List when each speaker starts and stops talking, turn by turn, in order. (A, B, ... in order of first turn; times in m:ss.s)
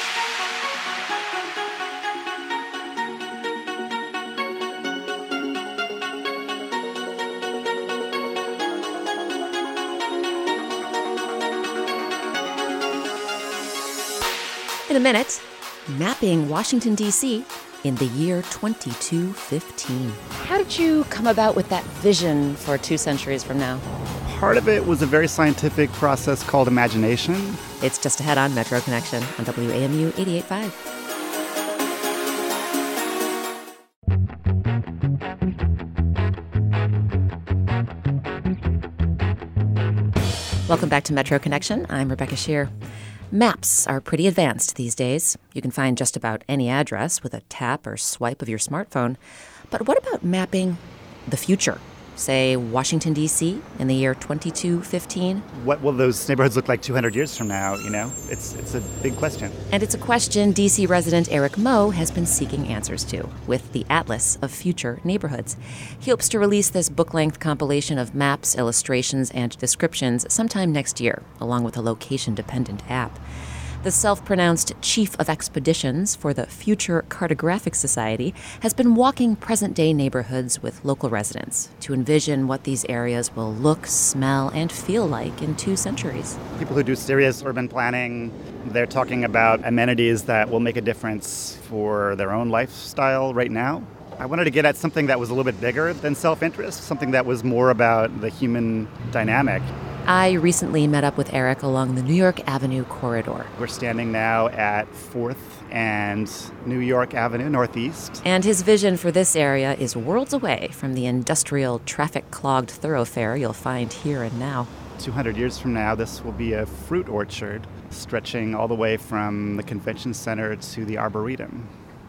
0:14.9-0:23.8 A
0:24.2-0:27.6 B
0:27.8-0:30.8 A
0:40.7-0:42.7 A
0:43.3-0:49.2 A
0:49.7-0:55.4 A
0:55.5-0:59.6 B
0:59.7-1:13.2 A
1:13.8-1:26.4 A
1:26.6-1:39.7 B
1:40.0-1:43.5 A
1:43.6-1:48.2 B
1:48.2-1:54.7 A
1:55.0-2:01.7 B